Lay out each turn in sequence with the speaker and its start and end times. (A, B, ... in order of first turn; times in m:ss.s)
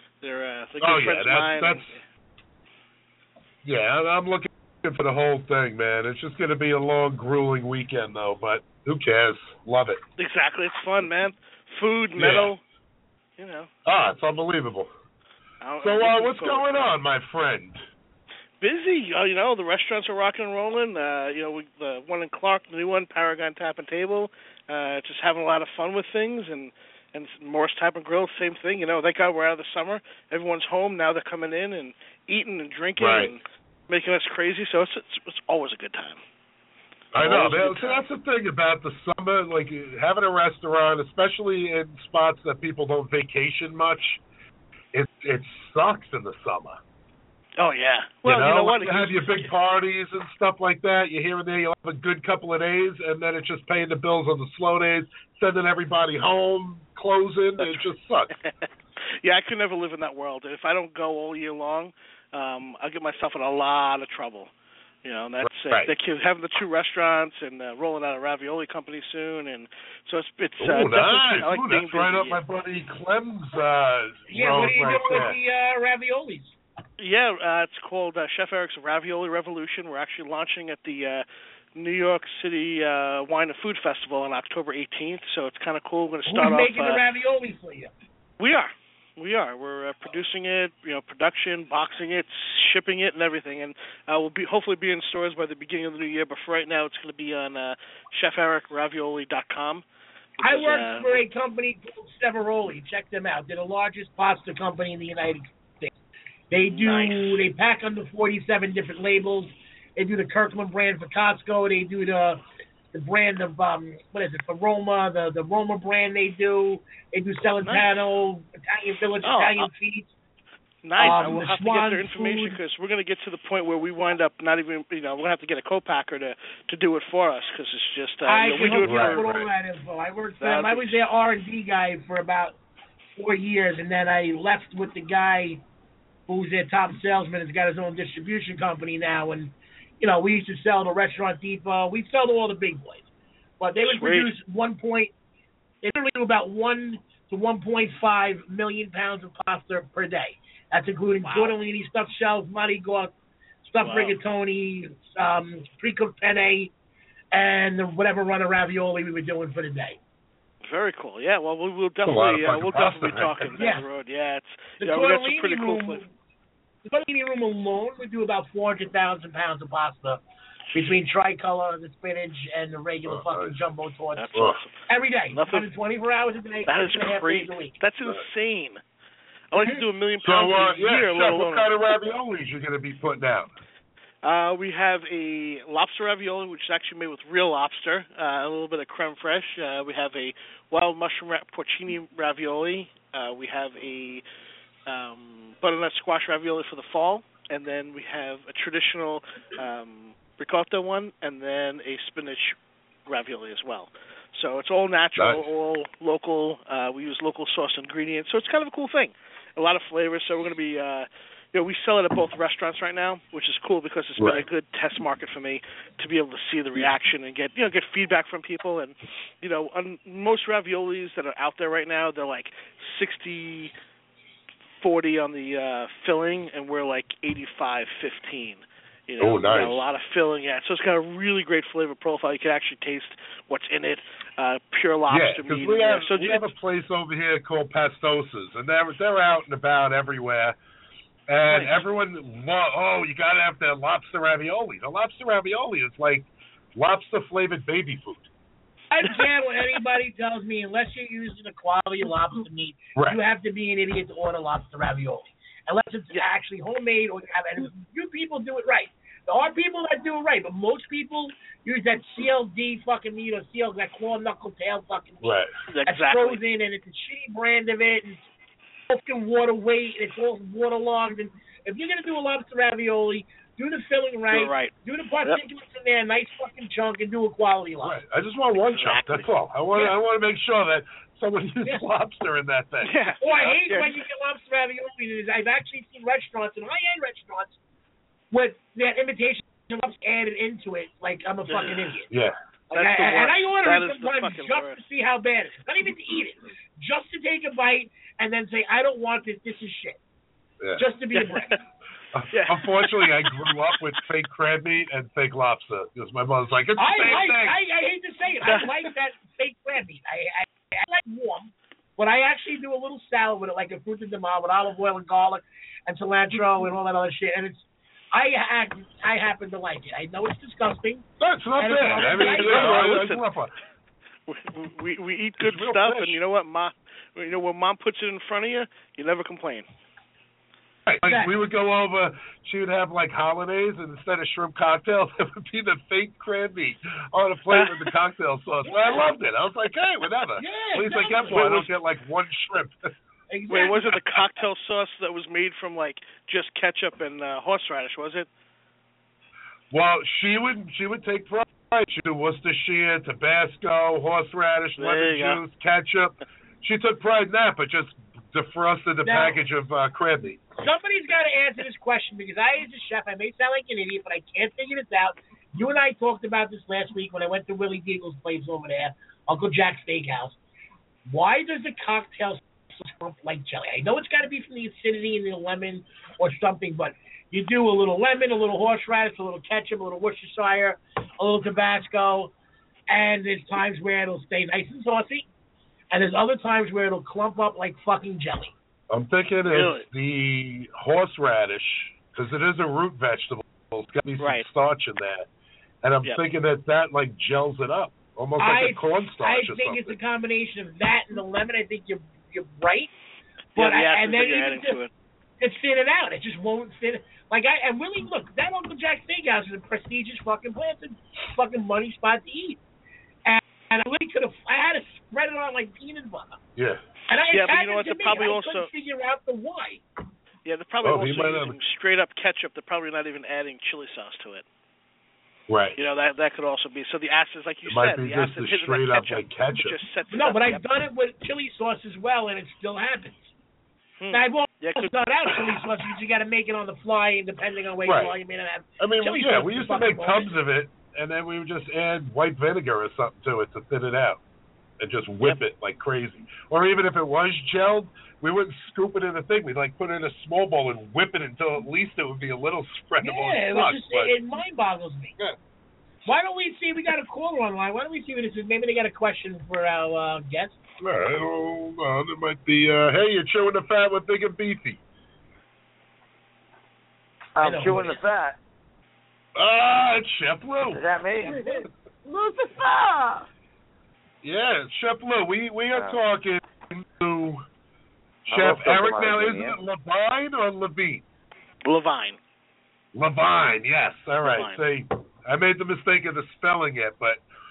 0:00.2-0:02.0 A
0:00.8-0:01.9 B
0:03.6-0:10.0 B
0:10.2-0:12.6 A
0:12.2-0:12.5 B
0:13.4-0:13.7 A
0:13.8-0:14.9 B
0:15.6-0:16.8 A
0:15.8-0:17.8 B
0:18.6-0:36.2 A
0:33.0-0:33.3 B
0:37.1-0:44.2 B
0:37.2-0:38.0 A
0:44.9-0:46.8 B
0:47.6-0:49.4 A
0:48.2-0:58.3 B
0:59.2-1:04.5 A
1:05.0-1:12.4 A
1:05.4-1:05.9 B
1:10.6-1:15.4 B
1:14.3-1:16.6 C
1:17.0-1:27.0 A
1:26.3-1:27.9 C
1:28.4-1:39.8 A
1:40.4-1:41.2 A
1:40.4-1:45.9 C
1:46.5-1:52.4 C
1:46.7-1:47.3 A
1:52.9-2:00.1 C
1:57.6-1:57.9 A
1:59.2-1:59.7 A
2:00.8-2:09.4 A
2:01.0-2:02.6 C
2:08.2-2:12.6 C
2:08.6-2:09.5 B
2:10.4-2:11.0 A
2:13.2-2:15.6 C
2:16.3-2:23.0 C
2:23.6-2:25.1 C
2:23.8-2:24.3 A
2:25.8-2:33.1 C
2:31.2-2:31.5 A
2:33.6-2:36.7 C
2:33.8-2:34.2 A
2:37.3-2:40.0 C
2:40.6-2:46.0 A
2:42.0-2:43.6 B
2:43.6-2:43.8 C
2:44.8-2:46.1 C
2:46.8-2:50.2 C
2:50.7-2:54.3 C
2:53.0-2:53.6 B
2:54.2-2:54.7 A
2:54.3-2:54.6 B
2:54.9-2:57.8 C
2:55.3-2:55.7 A
2:56.6-2:58.8 A
2:59.5-3:01.7 A
2:59.6-3:03.5 B
3:04.2-3:14.2 A
3:14.9-3:22.6 A
3:23.1-3:43.7 A
3:25.2-3:25.4 B
3:34.2-3:34.4 B
3:44.8-3:56.5 A
3:49.2-3:49.8 B
3:55.1-4:00.6 B
4:01.3-4:08.3 B
4:01.5-4:01.8 A
4:08.9-4:28.2 C
4:25.2-4:25.5 B
4:25.7-4:26.4 A
4:28.9-4:38.0 C
4:34.3-4:34.7 A
4:37.8-4:42.9 B
4:38.7-4:39.3 A
4:42.8-4:44.0 A
4:43.2-4:47.6 C
4:48.3-4:52.1 C
4:51.5-4:51.9 A
4:52.1-4:52.3 B
4:52.7-4:54.8 A
4:52.7-5:00.0 C
5:00.8-5:01.6 C
5:01.1-5:01.6 A
5:02.1-5:07.6 B
5:02.3-5:03.0 A
5:06.8-5:21.1 C
5:08.4-5:08.8 A
5:21.2-5:23.5 B
5:21.6-5:23.0 C
5:21.9-5:23.2 A
5:24.3-5:29.6 A
5:25.4-5:26.2 B
5:30.8-5:42.9 B
5:31.0-5:31.3 C
5:37.5-5:37.8 A
5:38.7-5:39.0 C
5:40.4-5:41.7 C
5:43.3-5:43.9 C
5:43.5-5:48.3 A
5:49.7-6:00.4 B
5:54.8-5:55.4 A
5:59.0-5:59.4 C
6:00.6-6:10.4 C
6:11.0-6:22.3 C
6:22.9-6:25.3 C
6:25.9-6:28.5 C
6:28.9-6:35.3 B
6:29.5-6:29.8 A
6:34.2-6:34.4 A
6:35.8-6:40.0 B
6:38.4-6:42.9 C
6:43.6-6:44.9 A
6:43.6-6:44.8 C
6:45.4-6:52.6 C
6:53.2-6:56.4 C
6:56.6-6:56.8 B
6:57.1-6:59.8 C
6:57.3-6:58.7 A
7:00.4-7:04.4 A
7:00.8-7:01.6 B
7:05.5-7:05.8 B
7:05.8-7:10.6 A
7:07.7-7:09.8 B
7:10.1-7:13.3 C
7:14.0-7:14.9 A
7:14.1-7:20.3 C
7:17.8-7:18.2 B
7:18.8-7:24.2 B
7:24.8-7:34.2 B
7:33.0-7:35.1 C
7:36.0-7:40.6 C
7:40.8-7:44.8 B
7:47.4-7:48.4 D
7:47.4-7:48.0 C
7:49.4-7:50.8 B
7:50.7-7:51.6 D
7:51.2-7:53.3 E
7:54.2-7:57.4 B
7:55.7-7:56.0 D
7:58.3-7:59.6 D
7:58.3-8:01.0 B
8:01.6-8:02.2 A
8:02.9-8:07.2 B
8:04.2-8:04.6 A